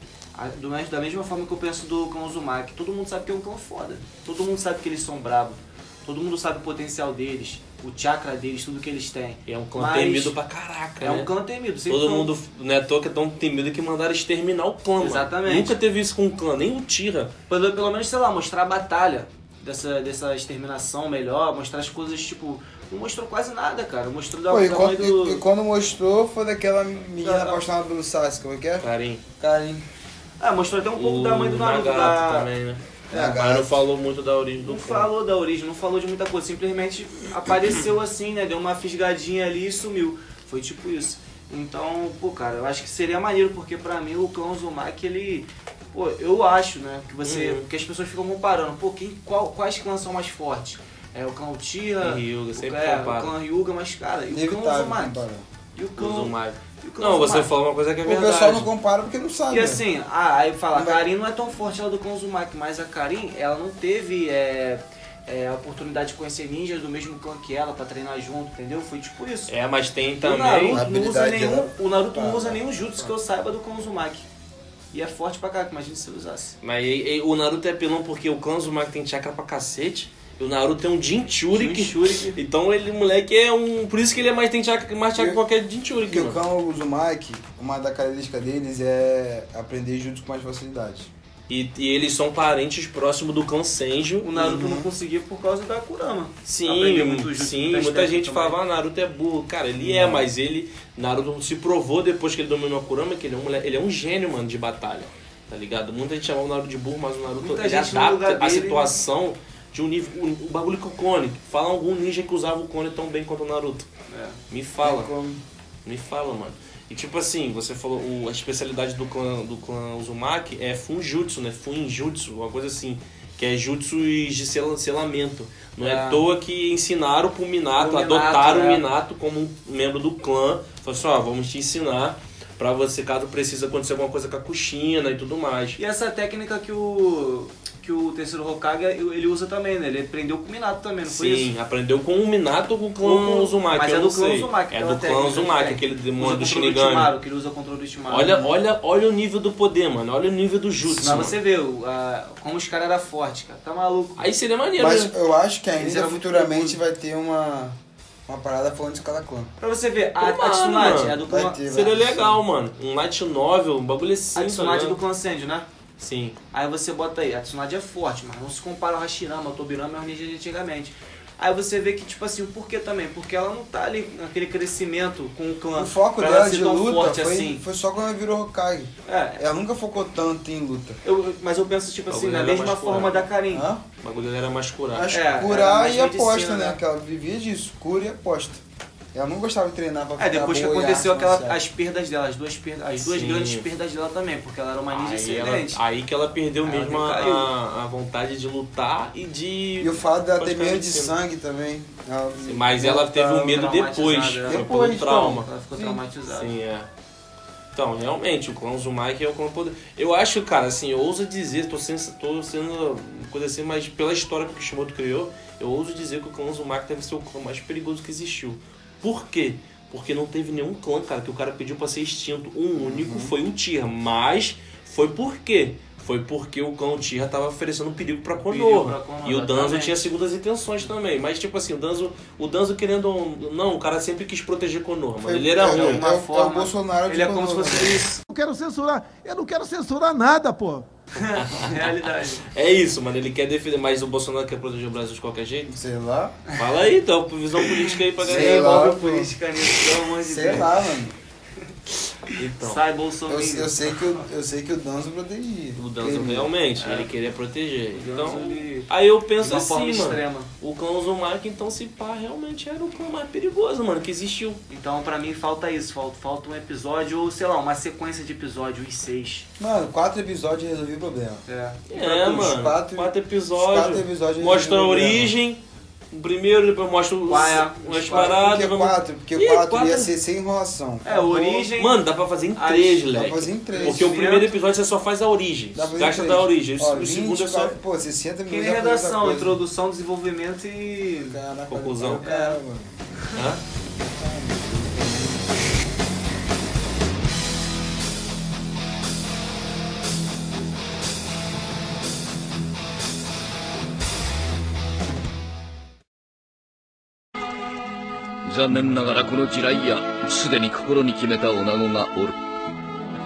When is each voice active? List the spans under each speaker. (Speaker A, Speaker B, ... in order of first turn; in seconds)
Speaker A: 0.3-10.3, 11.0-12.3, 15.0-15.8, 17.5-25.4, 27.2-27.6, 30.4-32.5, 34.6-55.2, 55.7-57.5, 59.5-69.5, 70.2-74.2, 74.9-76.6, 81.5-82.4, 94.2-98.6, 107.4-109.0, 114.1-114.4, 125.8-126.2, 127.8-128.8, 135.8-141.5, 143.0-148.5, 150.9-154.2, 155.8-156.8, 159.6-161.9, 164.3-165.7, 166.5-177.6, 179.1-179.4, 181.0-183.7, 185.1-186.8, 190.2-195.8, 196.6-197.5, 203.3-206.5, 228.4-230.1, 235.6-238.2, 241.1-242.5, 247.7-250.9, 252.3-254.2, 256.8-257.1, 257.9-260.5, 264.7-269.5, 271.5-271.8, 277.3-278.4, 281.0-283.1, 283.7-284.6, 288.5-291.4, 292.2-292.6
Speaker B: 9.5-11.3, 11.9-17.3, 28.8-29.2, 30.9-35.1, 47.2-47.6, 52.0-53.3, 56.0-58.7, 69.5-70.8, 76.6-86.4, 91.5-94.3, 96.4-113.9, 114.5-115.1, 115.8-135.8, 141.1-147.1, 148.1-151.3, 154.2-155.1, 160.2-165.0, 166.0-166.4, 182.1-183.3, 184.0-185.1, 193.0-193.7, 194.9-201.1, 202.4-205.5, 206.3-206.9, 207.7-236.0, 241.1-245.7, 246.6-248.8, 252.3-252.8, 255.8-264.6, 271.9-275.6, 276.1-280.1, 281.8-287.8, 291.7-292.2, 293.3-293.6
Speaker C: 24.5-28.9, 29.4-29.9, 33.1-33.8, 54.3-55.5, 58.0-59.8, 60.7-61.0, 70.7-72.6, 86.1-91.1, 94.3-94.9, 99.8-100.3, 114.8-115.4, 154.8-159.5, 161.2-162.4, 175.7-181.0, 183.5-183.8, 184.9-188.6, 189.1-191.6, 199.8-203.6, 204.4-206.0, 222.8-223.3, 235.2-238.0, 245.7-246.4, 248.2-249.3, 250.2-251.1, 253.3-256.5, 269.6-275.3, 278.1-281.7, 283.1-284.1, 285.7-289.6, 291.3-293.0, 293.9-295.6
Speaker D: 238.3-240.9
Speaker E: 308.4-312.4